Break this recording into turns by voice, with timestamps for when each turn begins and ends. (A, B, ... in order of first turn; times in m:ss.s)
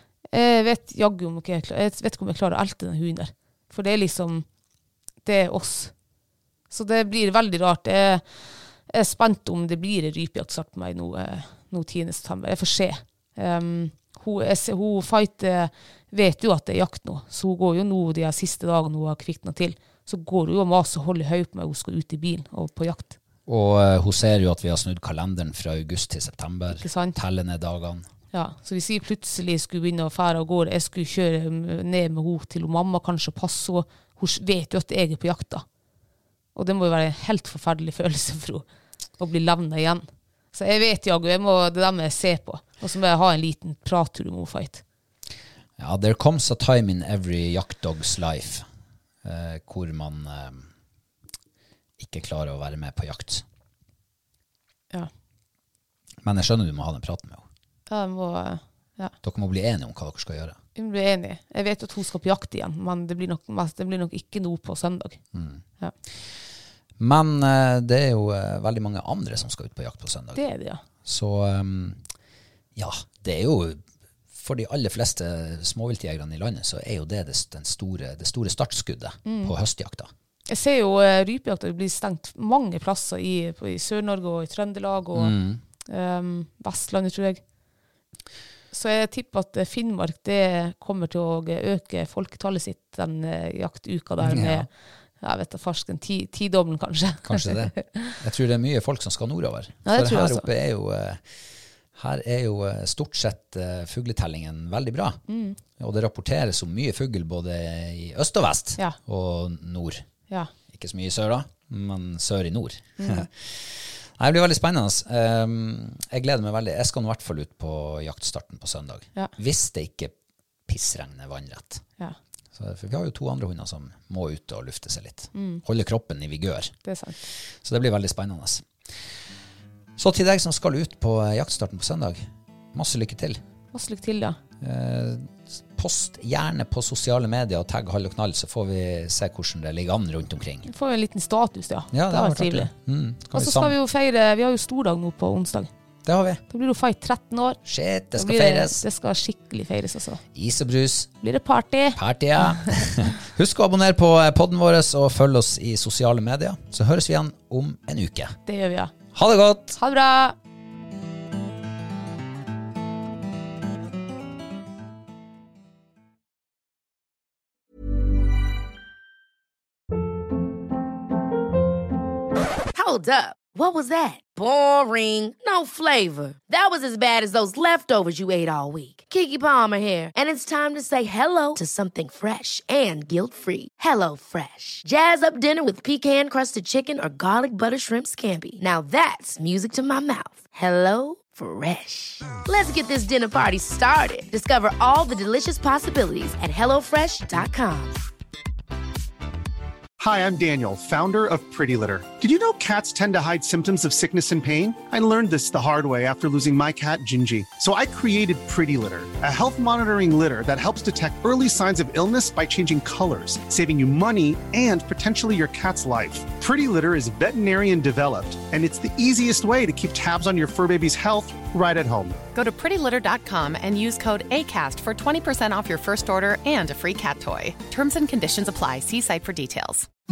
0:00.3-0:04.4 A
0:05.2-0:05.9 A
0:06.7-0:23.2 A
0:23.4-0:28.1 B
0:26.7-0:27.2 A
0:28.3-0:35.6 A
0:36.5-0:38.6 A
0:39.2-0:44.8 A
0:45.8-0:48.6 B
0:49.2-0:50.7 B
0:52.0-0:53.4 B
0:56.2-0:57.4 B
0:57.9-0:59.1 A
0:59.2-1:00.6 B
1:00.8-1:05.2 A
1:05.3-1:05.6 B
1:07.0-1:10.4 B
1:10.3-1:10.8 A
1:11.0-1:12.0 B
1:12.7-1:13.8 B
1:14.3-1:20.1 B
1:19.2-1:19.5 A
1:20.5-1:27.4 A
1:25.1-1:25.6 B
1:28.7-1:34.7 A
1:34.2-1:34.7 B
1:35.2-1:38.2 A
1:37.2-1:41.2 B
1:39.8-1:40.5 A
1:42.0-1:45.2 B
1:45.3-1:45.6 A
1:45.8-1:50.0 B
1:50.7-2:00.1 B
1:53.0-1:53.2 A
2:00.7-2:01.8 B
2:02.5-2:06.7 B
2:05.3-2:05.6 A
2:06.8-2:07.3 A
2:07.6-2:08.7 B
2:10.0-2:13.4 B
2:13.7-2:14.4 A
2:14.6-2:20.7 B
2:20.6-2:22.7 A
2:21.9-2:23.7 B
2:23.3-2:25.7 A
2:26.0-2:26.4 B
2:26.5-2:27.6 A
2:27.6-2:28.8 B
2:28.1-2:30.2 A
2:30.3-2:31.1 B
2:31.2-2:32.7 A
2:32.0-2:38.4 B
2:38.4-2:38.9 A
2:39.1-2:39.8 B
2:39.8-2:40.3 A
2:52.7-3:18.0 C
3:20.0-3:42.2 D
3:42.3-3:49.9 E